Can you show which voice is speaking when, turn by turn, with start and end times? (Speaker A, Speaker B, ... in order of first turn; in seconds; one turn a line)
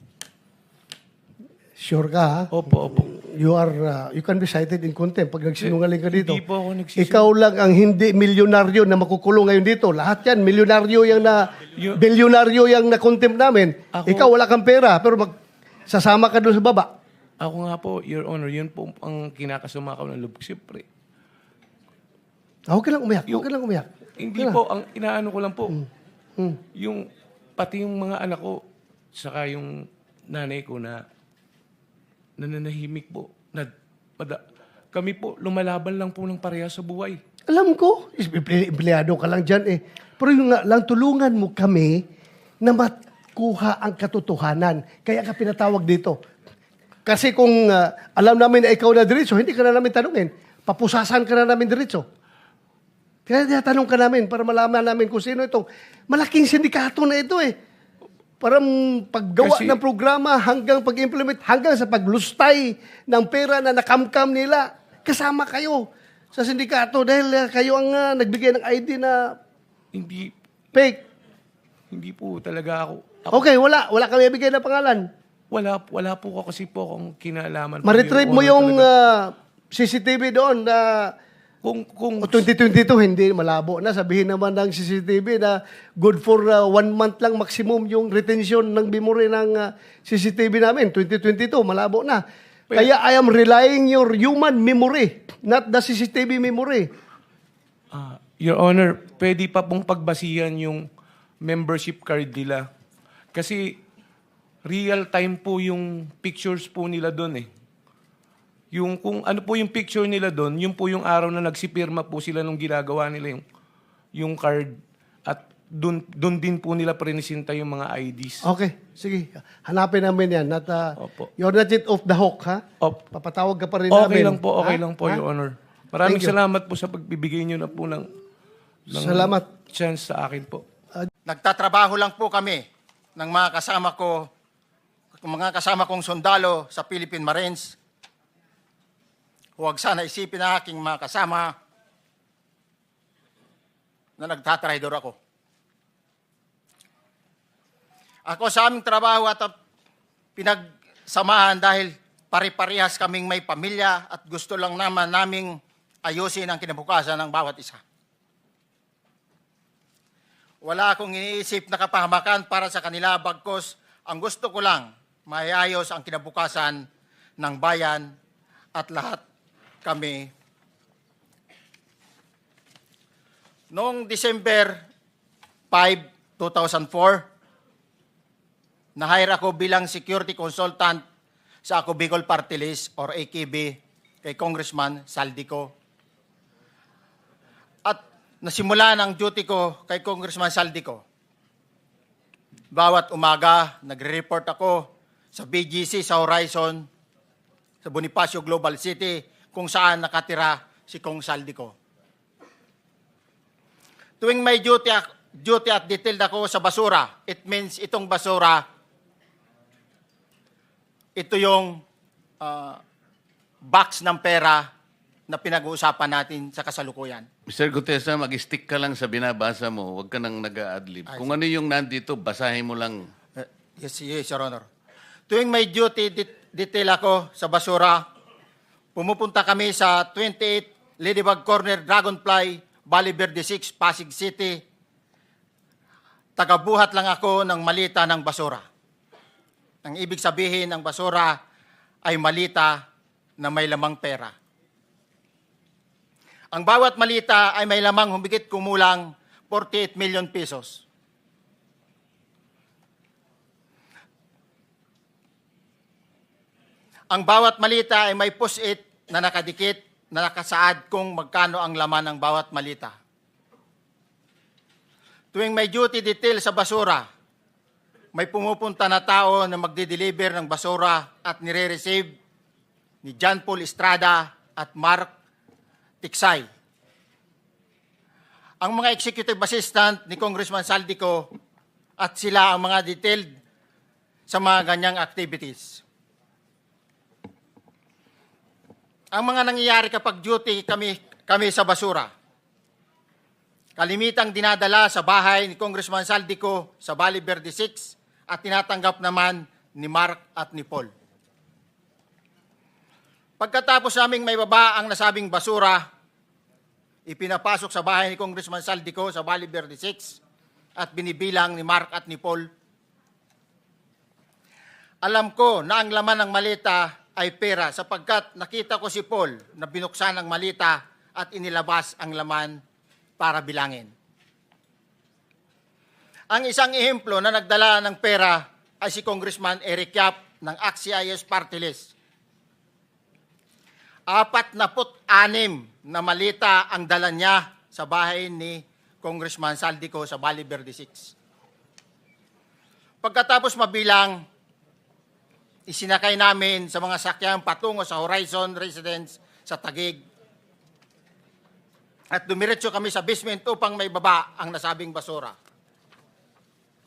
Speaker A: 1.8-6.4
Speaker B: 2.5-3.1
Speaker B: 5.6-7.3
Speaker A: 7.0-15.3
Speaker B: 11.8-12.0
Speaker B: 13.9-14.3
Speaker A: 15.9-16.9
Speaker B: 17.4-20.9
Speaker A: 22.7-24.6
Speaker B: 24.2-25.8
Speaker B: 26.8-27.1
Speaker B: 27.6-28.6
Speaker B: 29.1-31.0
Speaker B: 32.4-34.4
Speaker B: 34.9-37.2
Speaker A: 37.5-42.0
Speaker A: 42.6-46.2
Speaker A: 47.0-52.0
Speaker A: 53.3-57.5
Speaker A: 58.4-69.3
Speaker B: 59.4-59.8
Speaker B: 69.9-70.3
Speaker A: 70.7-71.0
Speaker B: 71.9-73.4
Speaker A: 73.3-75.1
Speaker B: 75.5-78.9
Speaker A: 77.8-81.1
Speaker B: 81.6-82.5
Speaker A: 82.2-96.9
Speaker B: 97.9-100.9
Speaker B: 101.4-102.7
Speaker B: 103.3-103.8
Speaker B: 104.7-107.5
Speaker B: 108.7-113.4
Speaker B: 114.2-118.5
Speaker A: 118.4-125.2
Speaker B: 121.0-121.3
Speaker B: 123.9-128.1
Speaker A: 126.0-126.4
Speaker B: 128.9-130.6
Speaker A: 128.9-129.4
Speaker C: 131.3-132.7
Speaker C: 133.2-134.3
Speaker C: 135.2-137.8
Speaker C: 139.6-141.5
Speaker C: 144.2-145.2
Speaker C: 148.3-149.5
Speaker C: 150.4-157.8
Speaker C: 160.6-166.9
Speaker C: 167.4-168.1
Speaker C: 168.8-169.2
Speaker C: 169.8-170.3
Speaker C: 173.7-174.8
Speaker C: 175.7-177.3
Speaker C: 179.0-181.0
Speaker C: 181.6-185.7
Speaker C: 187.8-191.0
Speaker C: 192.7-196.9
Speaker C: 197.8-201.8
Speaker C: 204.2-208.6
Speaker C: 211.2-211.8
Speaker C: 212.4-212.8
Speaker C: 213.7-214.7
Speaker C: 215.3-217.3
Speaker D: 217.5-223.0
Speaker C: 221.1-221.4
Speaker C: 223.4-224.7
Speaker C: 225.3-228.1
Speaker C: 228.9-234.6
Speaker C: 236.4-238.7
Speaker C: 239.8-241.4
Speaker C: 242.0-242.8
Speaker C: 243.4-244.3
Speaker C: 246.5-250.8
Speaker C: 257.1-263.0
Speaker C: 265.3-267.1
Speaker C: 268.1-272.1
Speaker C: 273.0-275.1
Speaker C: 276.0-276.5
Speaker C: 278.6-281.3
Speaker C: 282.0-283.3
Speaker C: 284.3-285.8
Speaker C: 289.1-292.1
Speaker C: 293.8-300.9
Speaker C: 303.4-305.9
Speaker C: 307.1-310.2
Speaker C: 310.8-312.5
Speaker C: 315.0-322.6
Speaker C: 323.2-323.9
Speaker C: 326.3-331.9
Speaker C: 334.1-341.1
Speaker C: 343.0-344.2
Speaker C: 345.7-350.0
Speaker C: 352.1-355.4